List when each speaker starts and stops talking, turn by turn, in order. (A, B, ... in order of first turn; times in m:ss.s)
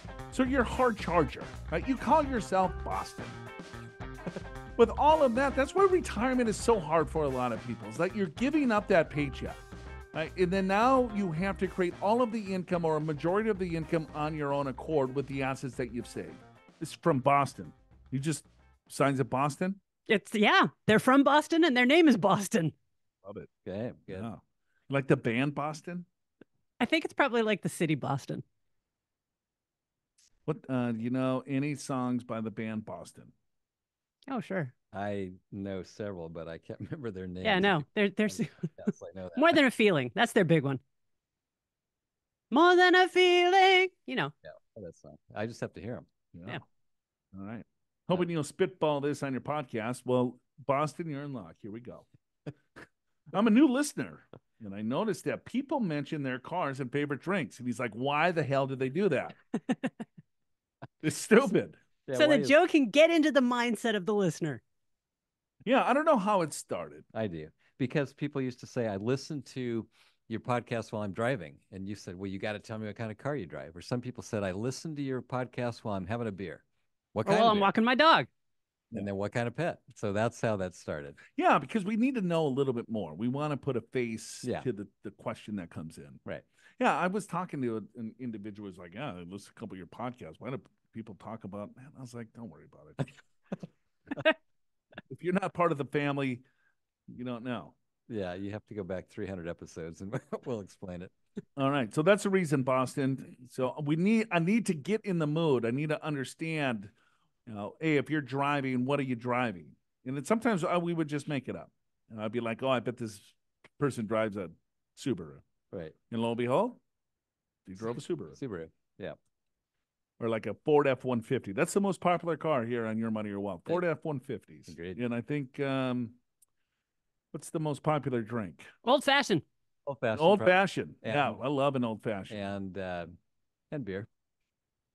0:00.3-0:03.4 A
0:04.8-0:09.6 A
0:10.1-0:19.8 A
0:20.1-0:22.7 B
0:23.2-0:23.5 A
0:23.6-0:24.3 C
0:24.1-0:26.1 A
0:26.8-0:28.4 B
0:30.4-0:33.3 A
0:34.3-0:34.7 B
0:34.9-0:39.6 C
0:37.4-0:38.7 B
0:39.4-0:40.8 B
0:42.5-0:44.3 B
0:44.4-0:46.1 C
0:46.3-0:46.6 A
0:47.3-0:52.0 A
0:53.3-0:59.4 A
1:01.0-1:01.8 A
1:02.1-1:02.6 C
1:02.1-1:04.6 B
1:05.6-1:07.0 A
1:07.1-1:16.6 C
1:17.1-1:17.7 C
1:17.2-1:18.3 B
1:18.9-1:21.2 C
1:21.4-1:26.2 A
1:26.8-1:33.1 A
1:35.1-1:36.4 A
1:37.1-1:37.7 A
1:38.1-1:41.1 C
1:41.6-1:46.9 A
1:47.5-1:55.4 A
1:56.1-1:56.8 A
1:57.6-1:58.4 A
1:58.3-1:59.2 C
2:00.2-2:06.2 A
2:04.7-2:05.0 C
2:07.3-2:08.7 A
2:08.8-2:09.4 B
2:09.8-2:11.4 C
2:10.1-2:12.4 A
2:12.3-2:13.1 C
2:13.7-2:14.1 C